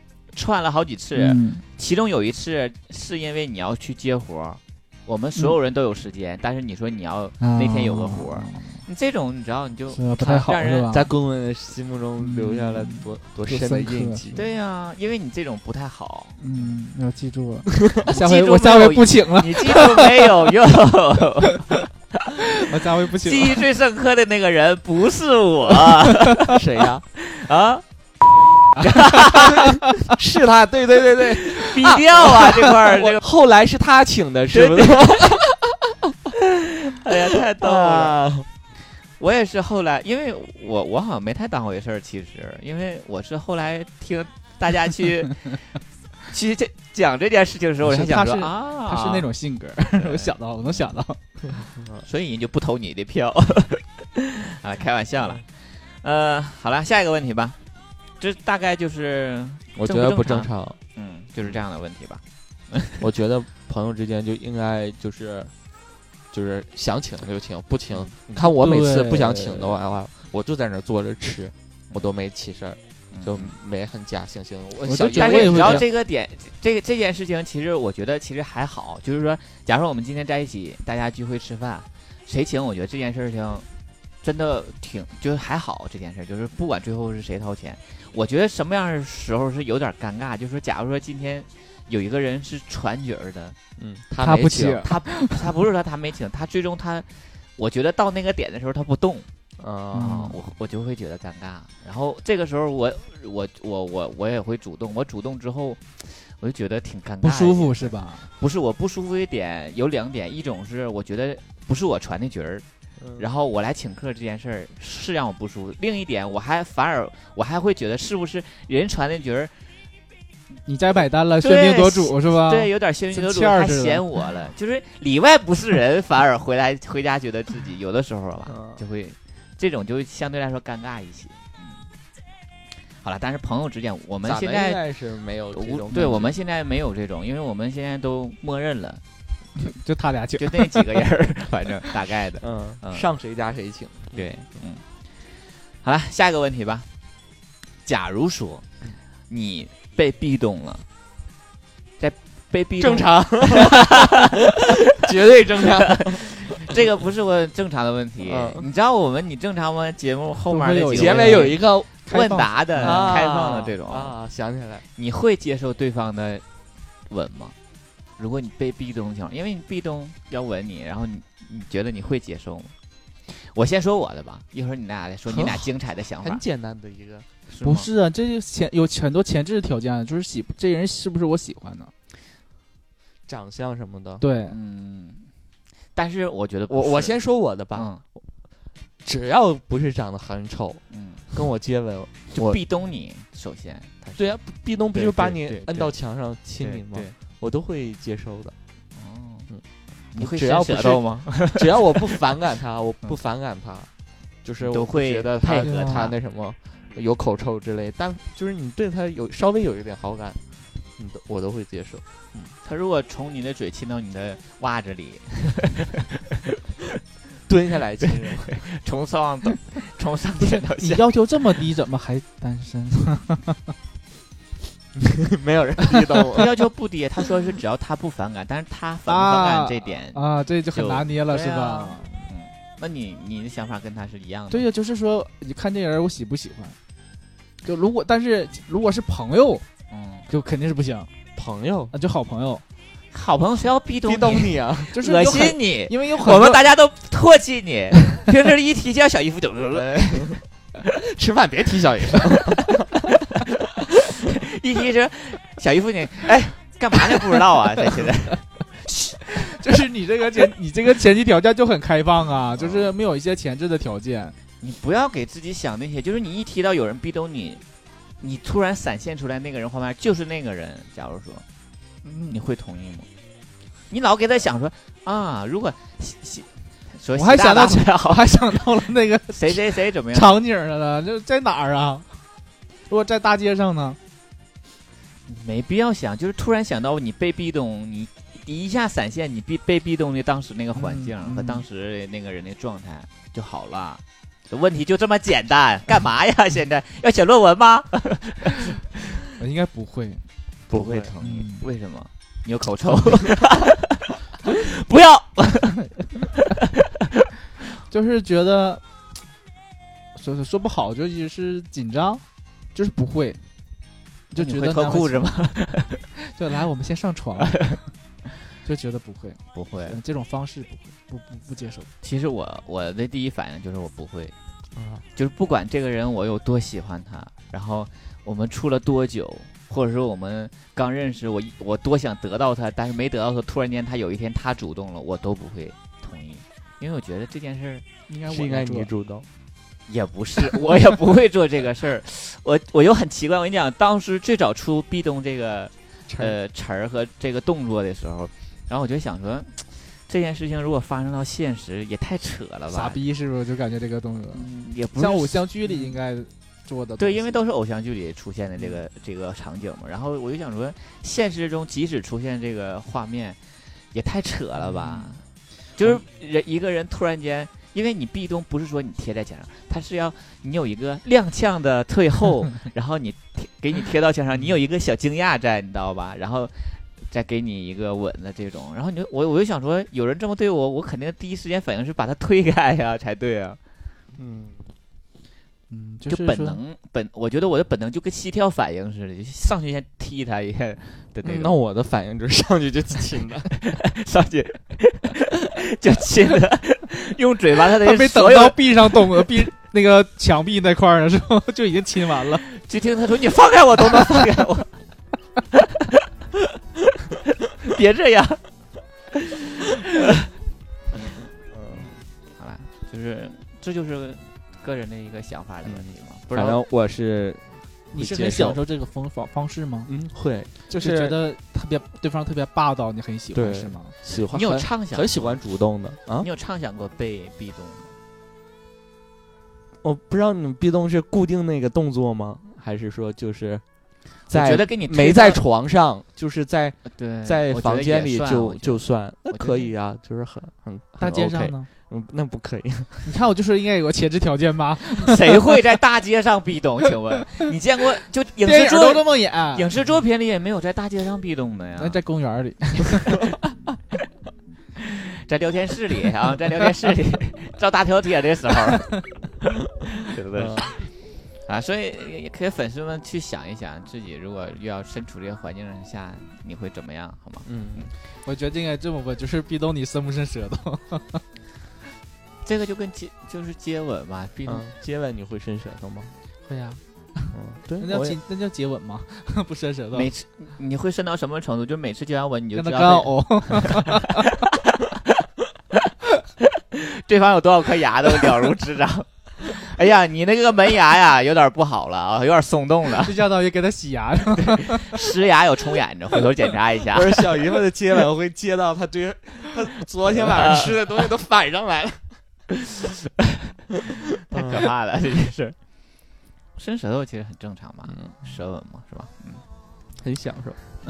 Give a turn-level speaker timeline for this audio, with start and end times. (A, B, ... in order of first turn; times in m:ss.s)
0:00.3-0:10.9 A
0:01.1-0:01.6 B
0:07.4-0:08.8 B
0:09.9-0:11.1 B
0:10.9-0:14.4 C
0:12.2-0:14.3 B
0:14.3-0:16.7 A
0:16.4-0:20.1 B
0:18.1-0:21.8 A
0:22.6-0:23.6 B
0:23.2-0:26.6 A
0:26.4-0:27.0 C
0:27.2-0:27.8 A
0:28.8-0:29.2 B
0:28.8-0:29.6 A
0:29.3-0:35.9 C
0:31.6-0:33.2 A
0:34.5-0:35.4 A
0:36.8-0:38.2 A
0:37.3-0:38.5 C
0:39.2-0:45.6 A
0:46.3-0:49.3 A
0:47.8-0:51.2 B
0:50.0-0:50.9 A
0:51.8-0:52.0 C
0:52.0-0:55.4 A
0:56.0-0:57.6 A
0:58.2-1:03.0 A
0:59.8-1:00.8 C
1:03.0-1:05.5 C
1:06.3-1:15.8 C
1:08.4-1:09.7 B
1:13.1-1:13.5 A
1:14.9-1:15.8 B
1:15.1-1:23.7 A
1:24.2-1:33.6 A
1:33.8-1:34.9 C
1:34.2-1:35.3 B
1:34.8-1:39.3 A
1:39.6-1:40.2 C
1:39.9-1:52.6 A
1:39.9-1:40.3 B
1:47.2-1:48.3 B
1:53.0-1:53.3 C
1:53.2-1:59.5 A
2:00.7-2:04.0 B
2:01.4-2:11.8 A
2:08.5-2:08.8 C
2:13.0-2:14.8 A
2:14.2-2:16.4 C
2:15.5-2:19.0 A
2:19.6-2:20.8 B
2:20.4-2:23.1 A
2:22.4-2:24.3 C
2:24.1-2:24.8 A
2:25.8-2:26.9 A
2:27.8-2:28.7 A
2:29.3-2:30.8 A
2:32.0-2:34.2 A
2:32.8-2:36.8 C
2:36.0-2:44.2 A
2:38.2-2:38.7 C
2:40.5-2:43.2 B
2:40.9-2:41.9 C
2:42.8-2:44.8 C
2:45.0-2:46.4 A
2:47.1-2:47.5 A
2:48.2-2:52.7 A
2:53.3-2:56.4 A
2:55.3-2:57.3 C
2:57.5-2:57.9 A
2:57.6-3:01.9 B
3:03.3-3:04.2 C
3:04.2-3:04.6 B
3:04.5-3:05.3 A
3:05.9-3:07.2 A
3:06.7-3:08.2 C
3:07.7-3:08.0 A
3:09.0-3:12.6 C
3:10.9-3:11.2 A
3:12.3-3:14.4 A
3:14.2-3:18.5 C
3:14.9-3:15.9 A
3:16.6-3:17.2 A
3:18.9-3:19.5 A
3:20.1-3:22.2 A
3:20.2-3:23.9 C
3:24.4-3:30.4 C
3:24.6-3:26.1 A
3:25.6-3:26.0 B
3:30.9-3:32.0 C
3:32.6-3:36.2 A
3:37.5-3:38.6 C
3:38.0-3:41.1 A
3:40.8-3:43.6 B
3:45.0-3:46.5 C
3:46.3-3:54.7 A
3:49.1-3:52.1 B
3:54.5-3:56.8 B
3:57.6-3:59.6 B
3:59.9-4:00.3 A
4:00.3-4:01.1 B
4:01.3-4:01.9 C
4:01.9-4:02.6 B
4:03.1-4:10.4 A
4:04.0-4:05.0 C
4:04.9-4:06.6 B
4:09.7-4:10.4 C
4:11.0-4:12.8 C
4:14.4-4:18.4 A
4:19.3-4:24.4 B
4:22.6-4:22.9 A
4:24.6-4:27.6 A
4:28.2-4:31.4 A
4:32.0-4:32.4 B
4:32.3-4:33.1 A
4:33.9-4:38.3 A
4:37.1-4:39.6 B
4:39.3-4:40.3 A
4:40.1-4:42.1 B
4:42.9-4:44.0 B
4:45.3-4:58.8 A
4:50.7-4:51.6 B
4:59.4-5:00.2 B
5:00.7-5:01.1 C
5:00.7-5:03.8 A
5:01.2-5:01.6 B
5:04.4-5:05.9 A
5:07.9-5:08.8 B
5:10.1-5:13.4 B
5:14.3-5:15.3 B
5:14.3-5:16.0 A
5:16.3-5:17.8 B
5:17.5-5:17.8 A
5:18.6-5:21.9 B
5:19.5-5:20.0 A
5:22.0-5:24.3 A
5:24.8-5:25.0 C
5:25.1-5:37.8 A
5:38.1-5:38.9 B
5:38.3-5:39.2 C
5:39.9-5:53.0 A
5:52.7-5:54.4 B
5:54.3-5:55.9 A
5:55.0-5:57.3 B
5:57.0-6:03.4 A
6:03.9-6:05.2 A
6:04.6-6:05.1 B
6:05.8-6:23.6 A
6:24.2-6:24.7 C
6:25.7-6:26.6 B
6:26.1-6:31.6 A
6:31.2-6:33.5 C
6:33.6-6:39.4 A
6:37.8-6:42.4 B
6:42.5-6:44.7 A
6:47.6-6:48.5 A
6:49.1-6:50.2 A
6:51.2-6:51.9 C
6:51.7-6:56.6 A
6:55.6-6:58.6 C
6:57.9-6:59.9 B
6:59.8-7:01.2 C
7:00.7-7:03.9 B
7:03.3-7:06.3 C
7:04.3-7:05.4 A
7:06.2-7:07.9 A
7:09.8-7:23.1 C
7:14.3-7:15.4 A
7:16.8-7:19.7 A
7:21.0-7:21.7 B
7:23.0-7:25.2 B
7:25.0-7:32.0 A
7:28.4-7:29.7 B
7:31.8-7:33.1 B
7:34.8-7:39.0 A
7:40.0-7:40.9 A
7:40.3-7:40.7 C
7:41.4-7:47.9 A
7:47.4-7:47.9 C
7:48.2-7:51.2 B
7:52.4-7:54.7 A
7:54.4-7:56.1 C
7:56.4-8:00.1 B
7:57.3-7:58.2 C
7:59.9-8:03.8 A
8:02.5-8:04.1 B
8:06.7-8:13.2 A
8:13.0-8:14.9 B
8:14.8-8:17.4 A
8:16.9-8:22.2 C
8:20.2-8:20.7 A
8:24.3-8:24.7 C
8:24.3-8:25.6 A
8:26.6-8:29.4 A
8:27.9-8:28.2 C
8:30.0-8:30.6 C